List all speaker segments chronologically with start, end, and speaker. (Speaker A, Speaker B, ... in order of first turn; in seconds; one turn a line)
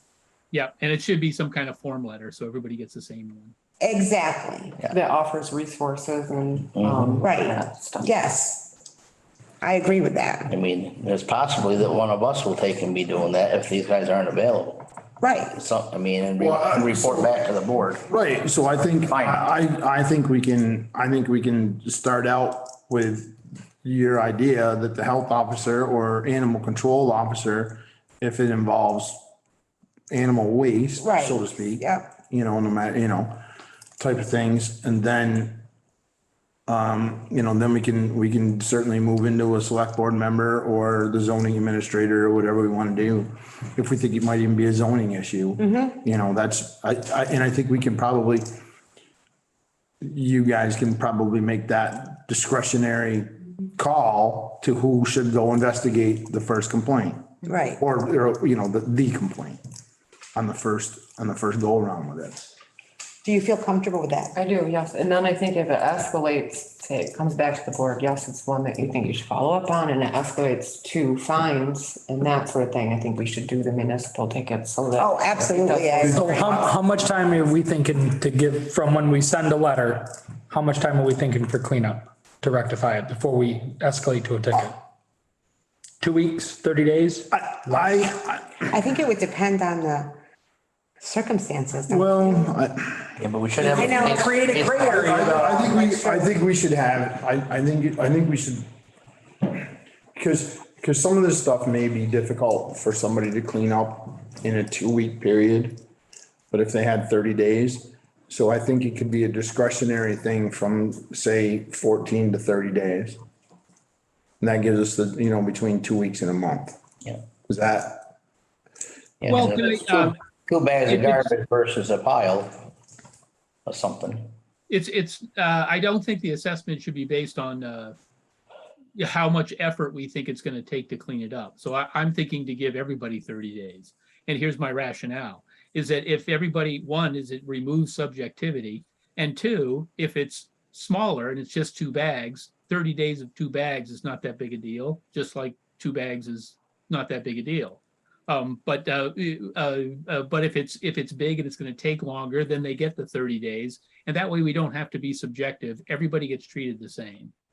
Speaker A: 0.5-3.5
Speaker B: 3.8-4.8
Speaker C: 4.9-8.1
Speaker D: 6.8-7.2
Speaker B: 7.2-8.7
Speaker B: 9.6-10.5
Speaker D: 10.5-14.9
Speaker B: 15.2-15.6
Speaker D: 15.6-18.1
Speaker E: 16.4-17.3
Speaker E: 18.1-29.2
Speaker D: 19.1-19.4
Speaker E: 30.1-33.4
Speaker B: 31.0-32.1
Speaker E: 34.0-35.6
Speaker E: 36.7-48.5
Speaker B: 45.6-46.0
Speaker E: 50.0-59.6
Speaker B: 57.5-57.8
Speaker E: 60.4-62.5
Speaker B: 63.2-64.4
Speaker C: 64.3-76.5
Speaker B: 75.0-76.7
Speaker F: 76.1-84.8
Speaker F: 86.0-87.9
Speaker E: 87.3-88.7
Speaker B: 88.7-90.2
Speaker B: 91.0-92.5
Speaker E: 91.9-93.2
Speaker D: 93.2-95.0
Speaker B: 93.7-94.4
Speaker F: 93.9-95.7
Speaker E: 94.8-98.7
Speaker B: 95.2-96.3
Speaker E: 100.2-105.8
Speaker E: 106.5-113.2
Speaker E: 114.4-116.8
Speaker E: 117.5-118.1
Speaker D: 119.2-122.7
Speaker A: 119.3-120.2
Speaker A: 120.9-121.3
Speaker D: 123.7-124.3
Speaker A: 124.7-128.0
Speaker A: 129.0-157.3